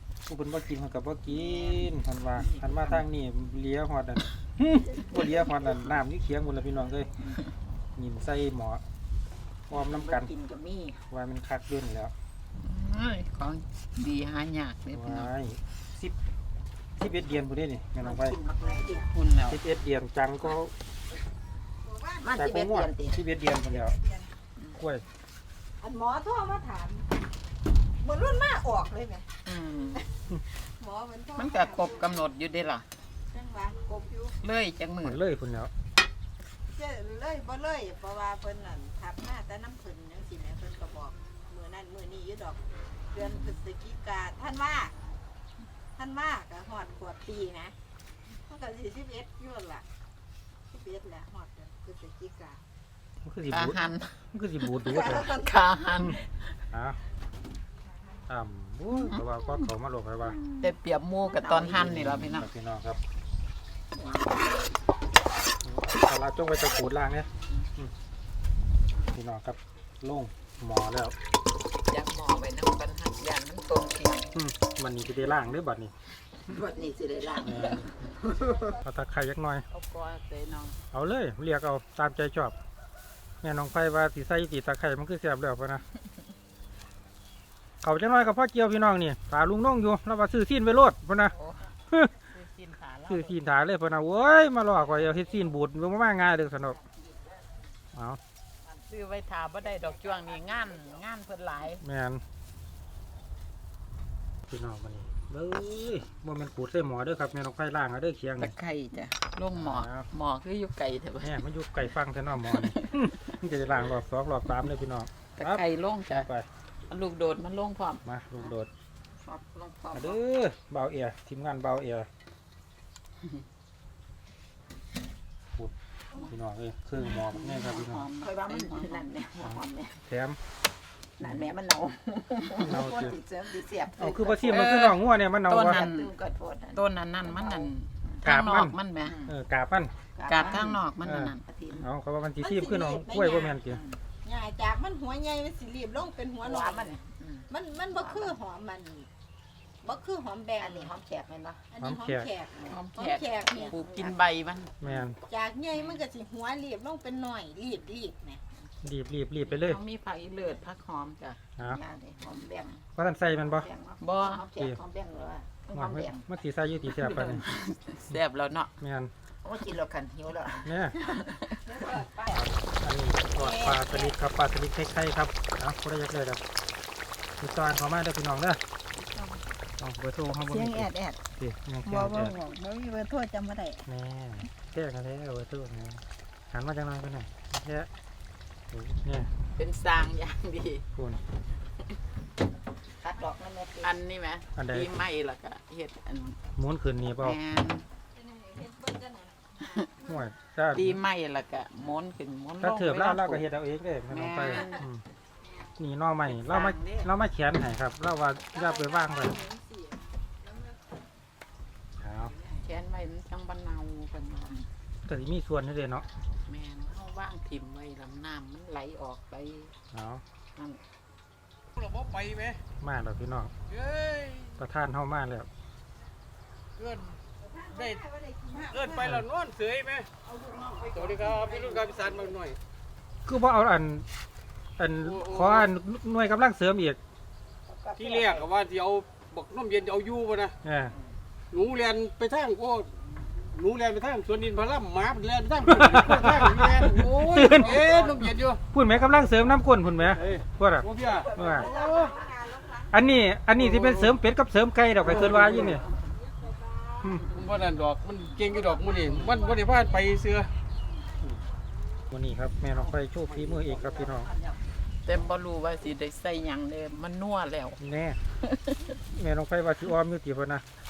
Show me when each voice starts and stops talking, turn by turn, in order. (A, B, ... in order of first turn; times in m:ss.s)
0:00.3-0:07.1 A
0:01.3-0:03.0 B
0:08.0-0:08.8 A
0:09.7-0:10.3 A
0:09.7-0:11.0 B
0:11.1-0:12.1 A
0:12.6-0:15.3 C
0:14.9-0:16.1 A
0:17.0-0:18.4 A
0:18.0-0:19.1 B
0:18.7-0:19.0 D
0:19.1-0:19.6 C
0:19.5-0:20.7 A
0:21.8-0:22.5 D
0:22.2-0:23.2 B
0:22.3-0:23.9 A
0:23.8-0:24.3 D
0:24.8-0:25.0 A
0:25.8-0:27.1 D
0:28.0-0:29.3 D
0:29.4-0:30.0 C
0:30.6-0:32.2 D
0:31.4-0:32.8 C
0:33.3-0:34.4 D
0:34.4-0:35.2 C
0:35.0-0:35.7 A
0:36.7-0:44.9 D
0:46.0-0:47.7 D
0:48.4-0:49.8 D
0:50.7-0:52.6 D
0:53.2-0:55.4 A
0:53.5-0:54.2 C
0:54.7-0:56.5 C
0:55.0-0:55.4 D
0:56.7-0:57.0 A
0:58.3-1:00.4 A
1:00.6-1:02.5 C
1:01.2-1:02.1 B
1:01.7-1:03.0 A
1:04.0-1:04.5 B
1:05.6-1:07.9 A
1:09.1-1:11.1 A
1:11.9-1:14.3 C
1:14.3-1:15.9 A
1:16.5-1:18.8 B
1:17.4-1:18.1 A
1:18.8-1:19.6 A
1:19.7-1:20.8 C
1:20.9-1:22.5 A
1:23.4-1:25.8 A
1:27.8-1:31.3 A
1:31.3-1:31.7 C
1:32.3-1:33.4 C
1:33.1-1:36.8 A
1:37.9-1:38.2 A
1:38.9-1:41.8 C
1:40.3-1:40.8 B
1:41.8-1:42.2 A
1:44.5-1:48.5 A
1:48.4-1:49.2 B
1:49.2-1:51.4 C
1:49.5-1:50.0 A
1:51.2-1:55.6 A
1:52.5-1:52.8 C
1:55.4-1:56.3 C
1:56.9-1:58.0 C
1:58.0-1:58.7 A
1:59.2-2:00.2 B
1:59.9-2:02.1 A
2:06.2-2:08.1 A
2:07.4-2:09.0 C
2:07.4-2:10.0 B
2:09.4-2:10.4 A
2:11.2-2:14.8 B
2:12.6-2:13.2 A
2:14.0-2:15.8 A
2:14.5-2:16.1 C
2:15.5-2:18.2 B
2:16.7-2:19.2 C
2:18.2-2:19.9 A
2:19.1-2:19.3 B
2:20.1-2:20.8 B
2:20.3-2:21.4 C
2:21.0-2:23.8 A
2:21.4-2:21.8 B
2:22.4-2:23.6 D
2:23.6-2:24.0 B
2:24.2-2:27.0 D
2:26.4-2:27.3 B
2:27.5-2:29.1 D
2:27.9-2:28.3 B
2:29.8-2:30.9 D
2:30.6-2:31.7 B
2:31.7-2:33.8 D
2:31.8-2:32.3 A
2:32.6-2:34.2 B
2:32.6-2:35.1 C
2:34.8-2:35.2 A
2:35.2-2:38.4 D
2:38.8-2:39.8 A
2:39.4-2:41.4 C
2:41.6-2:42.8 B
2:43.0-2:43.7 A
2:43.4-2:46.2 B
2:44.0-2:44.4 C
2:45.7-2:47.5 A
2:47.0-2:48.7 C
2:48.8-2:49.1 A
2:49.4-2:52.0 B
2:50.6-2:51.0 A
2:51.6-2:52.4 D
2:52.3-2:56.4 A
2:53.5-2:54.1 B
2:57.4-2:58.6 A
2:59.8-3:02.3 A
3:00.4-3:01.2 D
3:01.8-3:03.8 D
3:03.9-3:07.9 A
3:08.7-3:09.3 A
3:09.5-3:10.8 C
3:11.0-3:11.2 A
3:13.0-3:13.9 B
3:13.8-3:16.4 C
3:14.6-3:14.9 A
3:16.6-3:17.4 A
3:17.2-3:17.8 C
3:18.1-3:20.1 D
3:19.6-3:19.9 C
3:20.0-3:21.0 A
3:20.7-3:23.4 C
3:22.6-3:25.0 A
3:24.1-3:24.8 C
3:25.8-3:29.4 A
3:26.4-3:27.0 C
3:28.6-3:30.7 D
3:32.0-3:32.3 A
3:32.5-3:34.6 C
3:35.0-3:36.0 A
3:36.4-3:39.7 C
3:39.9-3:40.2 A
3:40.6-3:40.8 C
3:41.8-3:42.6 E
3:42.8-3:43.5 A
3:43.7-3:44.6 E
3:44.6-3:45.5 A
3:46.8-3:47.2 E
3:47.4-3:49.1 D
3:47.7-3:48.0 E
3:48.6-3:50.1 E
3:48.9-3:49.2 A
3:50.3-3:51.9 D
3:50.8-3:52.6 E
3:51.2-3:52.2 B
3:53.2-3:54.0 A
3:54.8-3:57.0 A
3:55.0-3:55.7 E
3:57.7-3:58.4 B
3:57.9-4:00.6 E
4:00.6-4:00.9 A
4:01.5-4:02.9 E
4:03.5-4:08.6 E
4:05.7-4:08.1 A
4:08.7-4:11.7 A
4:10.1-4:12.2 E
4:11.2-4:13.0 D
4:11.4-4:11.9 B
4:12.9-4:15.8 A
4:13.5-4:14.1 E
4:15.0-4:15.8 E
4:16.3-4:17.2 D
4:17.2-4:20.5 E
4:19.2-4:19.7 D
4:22.1-4:24.3 A
4:23.3-4:24.0 E
4:24.2-4:24.6 B
4:25.0-4:27.8 C
4:27.8-4:28.2 A
4:28.4-4:28.8 C
4:29.1-4:30.6 A